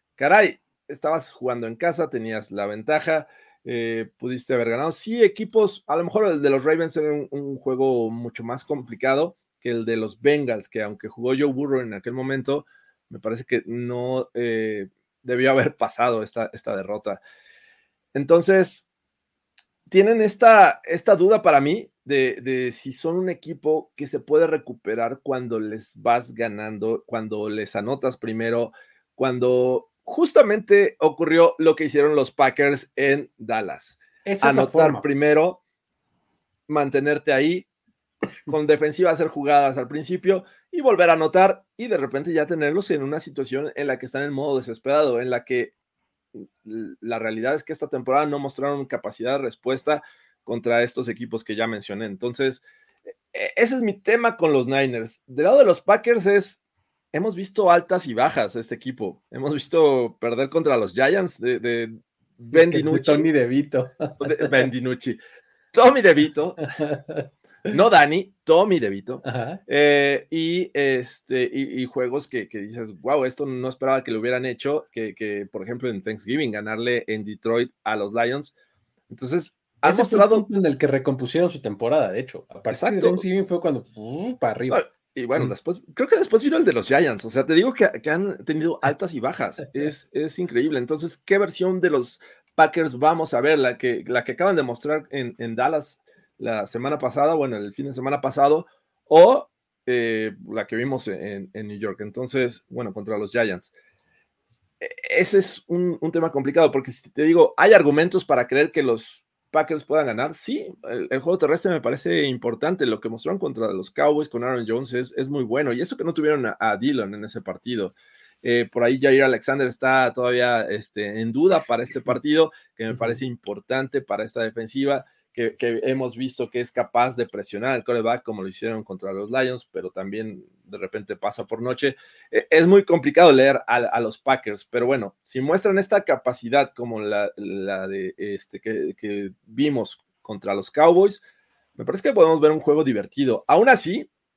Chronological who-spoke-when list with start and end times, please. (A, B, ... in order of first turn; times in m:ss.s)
0:00.2-0:17.2 A
0:18.1-0:18.9 A
0:19.9-0:35.6 A
0:34.2-0:35.1 B
0:36.7-0:37.6 A
0:38.5-0:45.7 A
0:46.4-0:52.6 A
0:53.3-0:56.6 A
0:57.1-1:03.3 A
1:02.5-1:04.7 B
1:04.2-1:05.2 A
1:05.7-1:06.7 A
1:06.8-1:07.3 B
1:07.7-1:18.5 A
1:09.2-1:09.6 B
1:19.1-1:20.4 A
1:19.8-1:24.8 B
1:22.7-1:23.2 A
1:24.7-1:43.7 A
1:44.8-2:21.2 A
2:21.8-2:24.1 A